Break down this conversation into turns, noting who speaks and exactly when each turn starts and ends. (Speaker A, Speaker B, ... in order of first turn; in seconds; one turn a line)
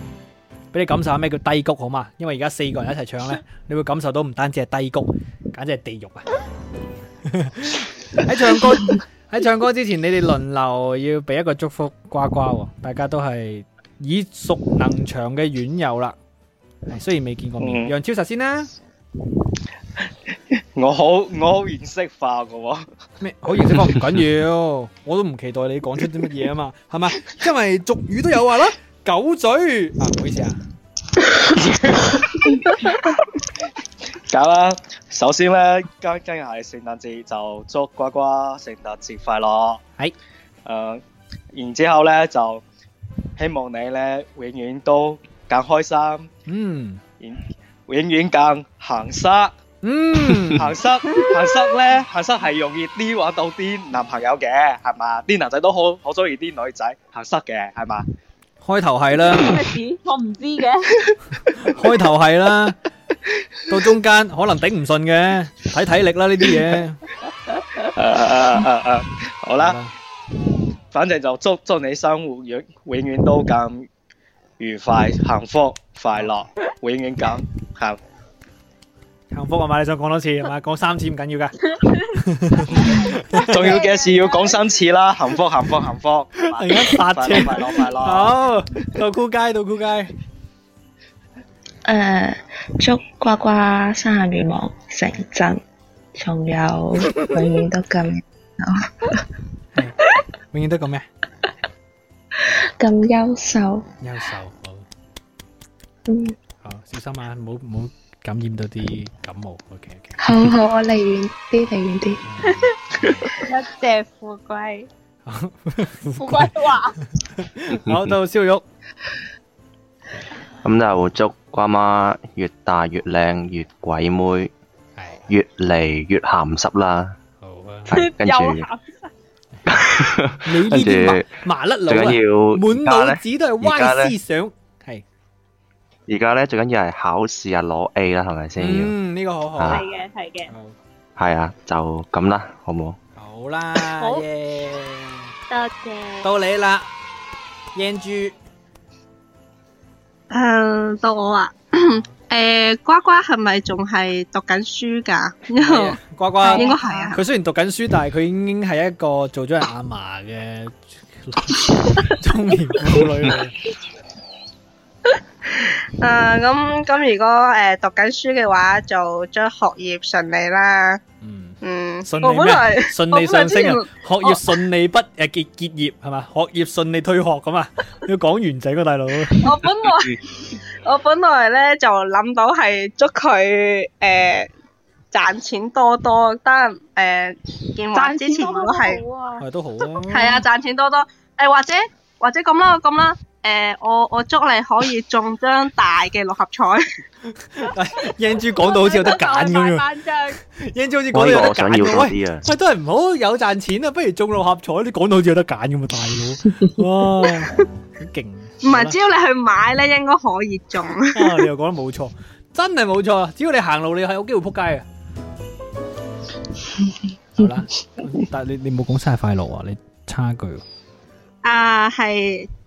Speaker A: 0.7-6.3
Speaker A: 7.2-16.2
Speaker A: 16.9-18.7
Speaker B: 17.6-17.9
Speaker B: 20.7-22.9
Speaker A: 23.2-30.6
Speaker B: 31.3-32.5
Speaker B: 34.3-39.8
Speaker B: 40.6-41.0
Speaker B: 41.5-42.6
Speaker B: 43.4-46.3
Speaker A: 46.5-47.0
Speaker B: 47.2-49.5
Speaker A: 49.8-50.7
Speaker B: 50.5-58.0
Speaker A: 58.6-59.6
Speaker C: 59.3-60.9
Speaker A: 61.6-62.8
Speaker A: 63.7-67.0
Speaker B: 67.8-69.8
Speaker A: 69.6-69.9
Speaker B: 70.9-73.9
Speaker B: 74.6-78.0
Speaker A: 79.3-83.7
Speaker C: 82.7-84.7
Speaker B: 82.7-88.3
Speaker A: 86.5-90.1
Speaker D: 91.8-95.6
Speaker D: 96.1-99.3
Speaker A: 100.5-101.0
Speaker D: 102.3-103.9
Speaker A: 104.0-104.8
Speaker D: 106.1-106.3
Speaker A: 106.6-110.2
Speaker D: 110.2-112.2
Speaker A: 112.2-113.3
Speaker C: 112.5-112.7
Speaker C: 113.3-114.9
Speaker A: 115.2-116.6
Speaker C: 116.2-117.0
Speaker A: 117.2-118.6
Speaker E: 120.6-124.5
Speaker A: 125.0-125.2
Speaker E: 125.3-127.2
Speaker A: 127.4-128.0
Speaker C: 127.9-129.1
Speaker E: 128.0-128.7
Speaker E: 129.7-131.3
Speaker A: 130.4-135.0
Speaker E: 131.9-134.1
Speaker E: 136.1-138.9
Speaker A: 138.6-139.8
Speaker E: 139.6-139.8
Speaker C: 139.7-140.5
Speaker A: 140.5-140.8
Speaker E: 141.2-143.0
Speaker A: 143.2-145.3
Speaker C: 143.8-144.2
Speaker C: 145.5-146.3
Speaker A: 146.2-146.9
Speaker A: 147.7-148.3
Speaker F: 150.3-157.2
Speaker A: 151.7-152.1
Speaker A: 155.6-163.6
Speaker C: 156.4-157.2
Speaker F: 165.6-171.0
Speaker A: 171.2-179.6
Speaker F: 171.6-174.6
Speaker F: 179.4-184.5
Speaker F: 185.1-189.0
Speaker C: 187.9-189.4
Speaker A: 189.4-190.4
Speaker F: 190.1-196.8
Speaker A: 197.3-199.8
Speaker C: 198.4-200.4
Speaker A: 200.4-209.0
Speaker E: 201.1-202.4
Speaker F: 208.6-211.4
Speaker A: 211.1-214.8
Speaker A: 217.3-220.6
Speaker F: 221.4-222.5